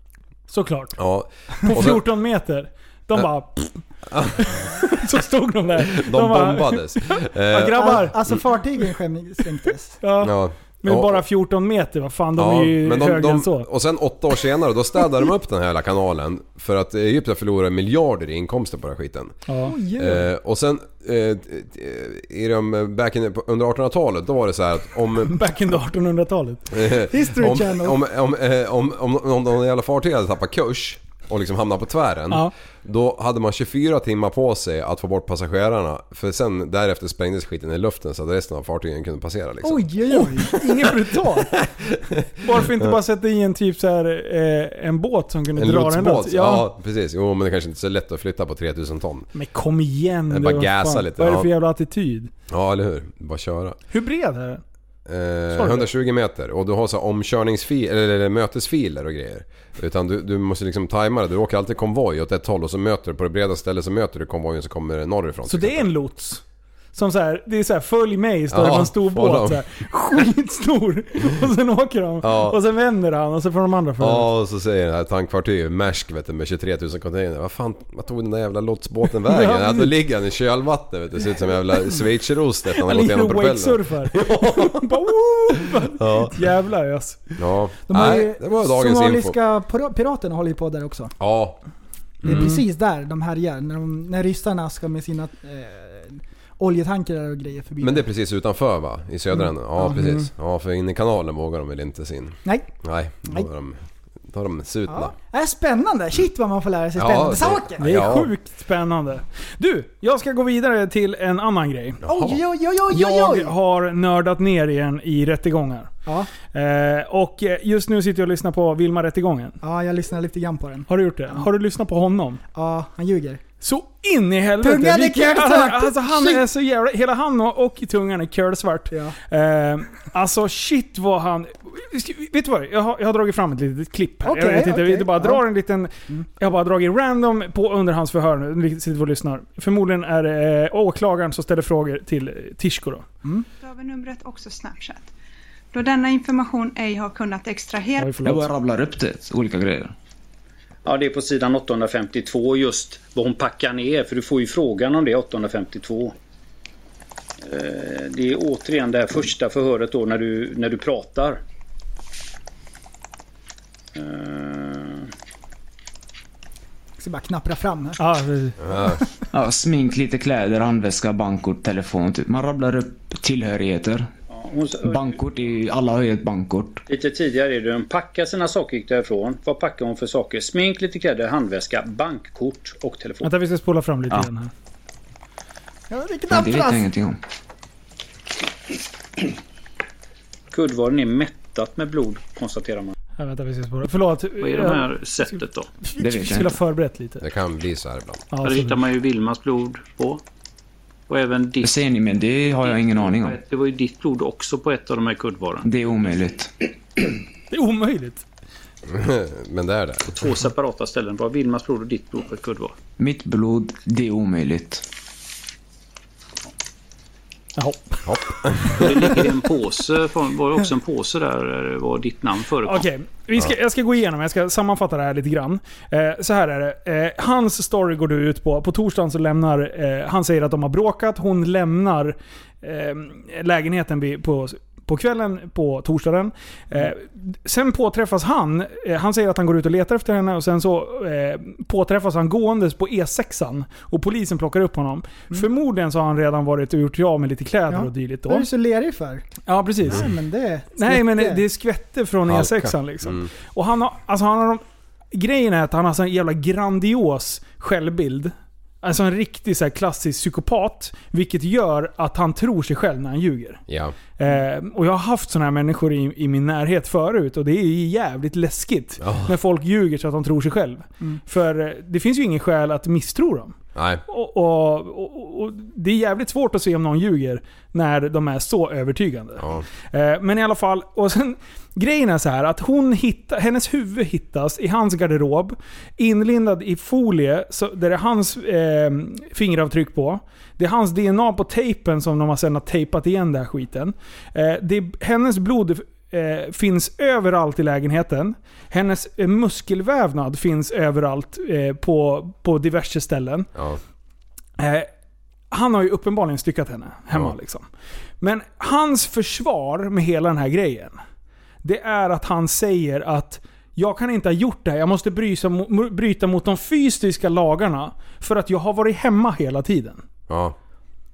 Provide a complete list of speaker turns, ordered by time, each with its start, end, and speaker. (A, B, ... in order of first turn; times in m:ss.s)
0:00.5-0:01.0 A
0:01.0-0:02.0 B
0:01.6-0:03.8 A
0:04.1-0:04.7 B
0:04.4-0:08.2 A
0:05.8-0:08.4 B
0:07.6-0:10.0 C
0:10.0-0:13.7 A
0:10.2-0:11.2 B
0:12.4-0:19.4 B
0:19.5-0:19.7 A
0:19.6-0:20.3 C
0:20.0-0:25.4 B
0:25.2-0:26.7 A
0:26.7-0:40.4 B
0:27.0-0:28.0 C
0:39.6-0:40.6 C
0:40.1-0:41.6 A
0:41.5-0:43.0 B
0:42.4-0:46.7 A
0:45.6-0:49.3 B
0:49.3-0:52.3 A
0:50.3-0:51.5 B
0:52.5-0:53.8 B
0:53.9-0:54.6 A
0:55.1-1:05.9 B
0:55.5-0:55.9 A
1:05.5-1:06.4 A
1:06.9-1:14.3 A
1:08.5-1:09.6 B
1:12.2-1:12.6 B
1:14.0-1:25.0 B
1:19.3-1:19.9 A
1:22.8-1:27.2 A
1:25.8-1:26.4 B
1:27.4-1:29.4 B
1:27.9-1:31.2 C
1:31.2-1:31.6 B
1:32.2-1:32.6 B
1:32.2-1:38.0 C
1:32.3-1:32.6 A
1:37.8-1:45.2 B
1:39.8-1:40.3 A
1:44.9-1:47.8 C
1:47.0-1:48.3 B
1:47.8-1:52.0 A
1:52.0-1:52.4 B
1:52.0-1:53.5 C
1:52.9-1:55.9 A
1:56.5-1:59.6 A
1:59.6-2:01.4 C
2:00.9-2:02.4 A
2:02.5-2:03.4 C
2:03.6-2:23.0 A
2:04.6-2:06.4 C
2:14.2-2:15.4 C
2:23.6-2:25.1 D
2:25.7-2:28.1 D
2:28.0-2:28.5 A
2:28.2-2:29.9 E
2:30.8-2:36.2 F
2:37.4-2:41.4 F
2:44.0-2:45.1 F
2:47.0-2:48.0 C
2:48.0-2:48.6 A
2:48.6-2:49.0 B
2:49.3-2:54.1 E
2:54.3-2:55.2 F
2:54.8-2:56.8 E
2:56.9-3:03.3 F
3:03.2-3:04.5 A
3:05.9-3:06.9 C
3:06.3-3:07.2 E
3:10.5-3:12.9 F
3:13.2-3:15.4 A
3:14.4-3:15.7 F
3:15.9-3:17.2 A
3:16.0-3:16.6 E
3:17.2-3:18.3 B
3:18.3-3:18.8 A
3:18.4-3:20.2 F
3:21.1-3:21.8 F
3:21.6-3:23.4 E
3:22.6-3:25.7 F
3:25.6-3:26.5 E
3:27.5-3:28.2 A
3:28.9-3:30.1 B
3:30.1-3:32.8 F
3:33.0-3:34.8 E
3:37.6-3:38.1 A
3:38.1-3:39.2 B
3:38.8-3:42.9 F
3:42.6-4:08.5 A
4:07.7-4:09.3 C
4:09.5-4:10.1 A
4:09.8-4:11.4 C
4:10.8-4:14.6 A
4:12.3-4:13.3 B
4:15.1-4:23.6 A
4:23.7-4:24.0 B
4:24.2-4:33.6 A
4:29.0-4:29.4 B
4:33.8-4:34.0 B
4:34.1-5:03.5 A
4:39.4-4:39.6 B
5:04.6-5:04.9 A
5:05.5-5:07.7 A
5:08.2-5:11.0 A
5:11.6-5:20.0 A
5:20.3-5:20.6 B